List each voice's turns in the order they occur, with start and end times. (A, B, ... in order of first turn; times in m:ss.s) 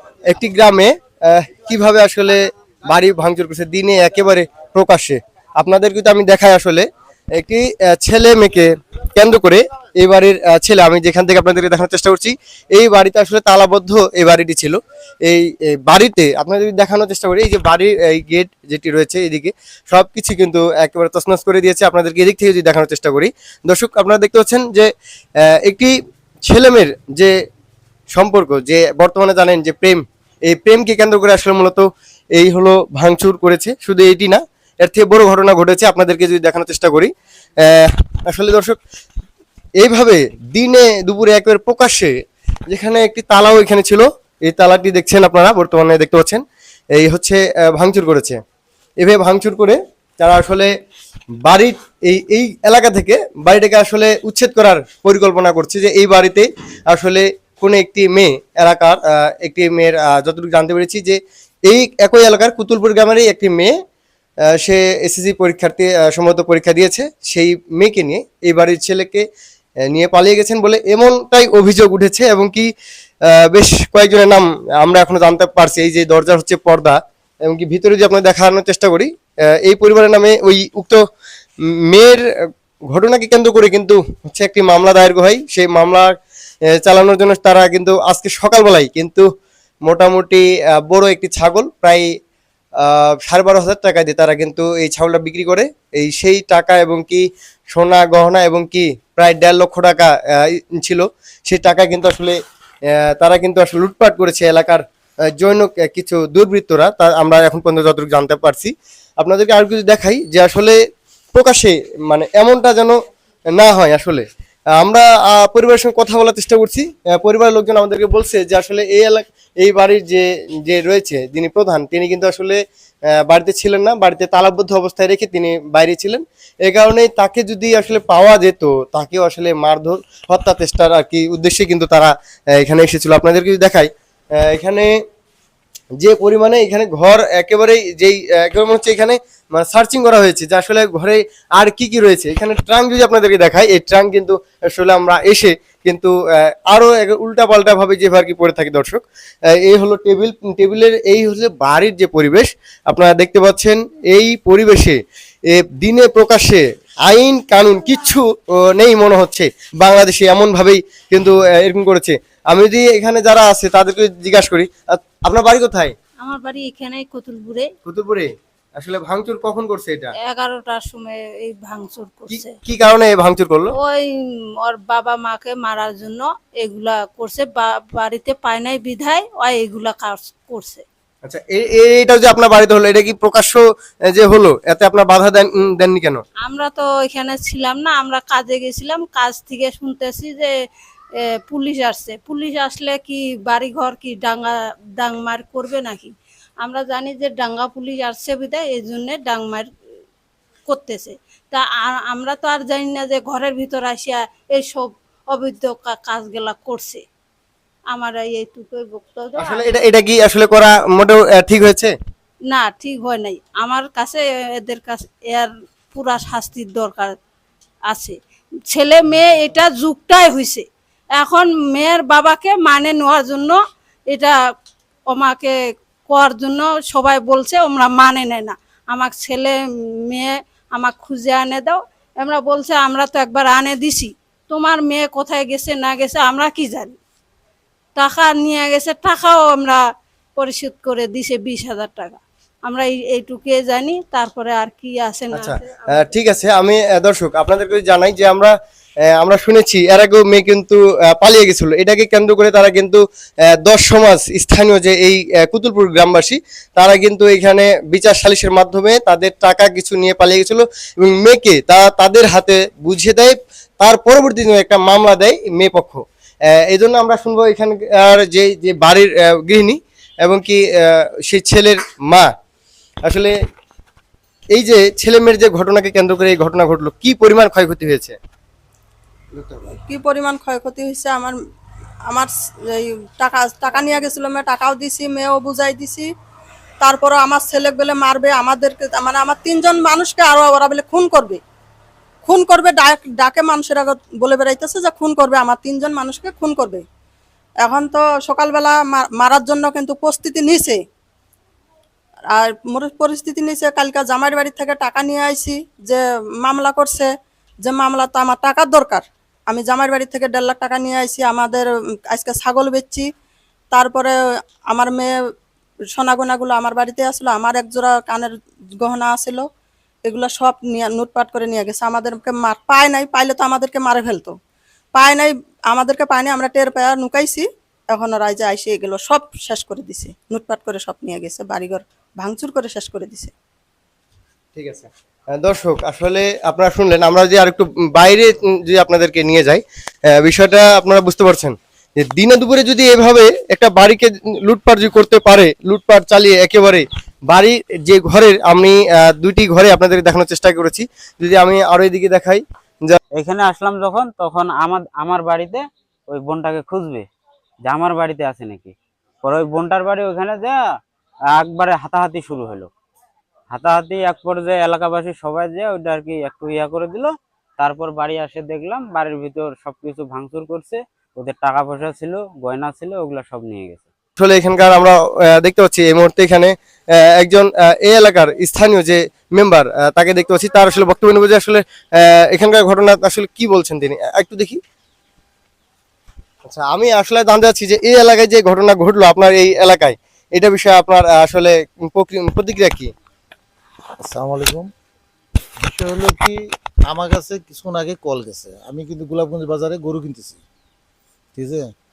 0:00.3-0:24.9 A
0:25.5-0:27.3 A
0:28.1-0:38.8 A
0:39.8-0:42.1 A
0:42.7-0:46.4 A
0:46.9-0:48.4 A
0:49.0-0:50.7 A
0:51.4-1:03.7 A
1:04.6-1:09.2 A
1:09.9-1:12.7 A
1:13.3-1:19.1 A
1:19.6-1:21.0 A
1:21.9-1:22.2 A
1:22.9-1:26.1 A
1:26.8-1:29.2 A
1:29.8-1:32.1 A
1:32.8-1:42.4 A
1:43.0-1:44.8 A
1:45.4-1:50.8 A
1:51.3-1:53.0 A
1:53.5-1:54.2 A
1:54.8-2:02.6 A
2:03.2-2:14.9 A
2:16.0-2:29.0 A
2:29.6-2:45.9 A
2:46.2-2:47.7 B
2:47.8-2:50.1 A
2:50.2-2:52.5 B
2:52.3-2:53.7 A
2:53.8-2:54.1 B
2:54.6-3:00.8 B
3:01.2-3:06.2 A
3:06.4-3:10.5 B
3:11.5-3:19.7 B
3:20.7-3:27.0 B
3:27.9-3:29.6 B
3:29.4-3:31.9 A
3:32.5-3:37.2 B
3:37.9-3:38.2 B
3:38.7-3:40.6 B
3:41.2-3:43.6 B
3:45.1-3:45.5 B
3:46.1-3:57.0 B
3:58.0-3:59.8 B
4:00.4-4:06.1 B
4:05.3-4:08.5 A
4:09.1-4:13.0 A
4:13.6-4:26.0 A
4:26.6-4:32.3 A
4:33.0-4:33.3 A
4:34.5-4:38.2 A
4:39.3-4:39.7 A
4:39.8-4:41.4 C
4:42.1-4:46.1 C
4:46.8-4:51.4 C
4:52.2-4:56.8 C
4:57.6-5:00.8 C
5:02.3-5:07.1 C
5:07.6-5:13.1 C
5:13.7-5:14.2 C
5:14.7-5:15.1 C
5:16.0-5:19.5 C
5:20.0-5:24.4 C
5:24.9-5:33.3 C
5:34.5-5:39.6 A
5:40.1-5:53.0 A
5:53.1-5:57.0 D
5:57.6-6:00.6 D
6:01.3-6:02.7 D
6:03.5-6:13.9 D
6:14.2-6:16.5 A
6:17.2-6:24.6 A
6:26.4-6:32.9 A
6:34.0-6:34.7 E
6:35.6-6:40.4 E
6:41.3-6:41.7 E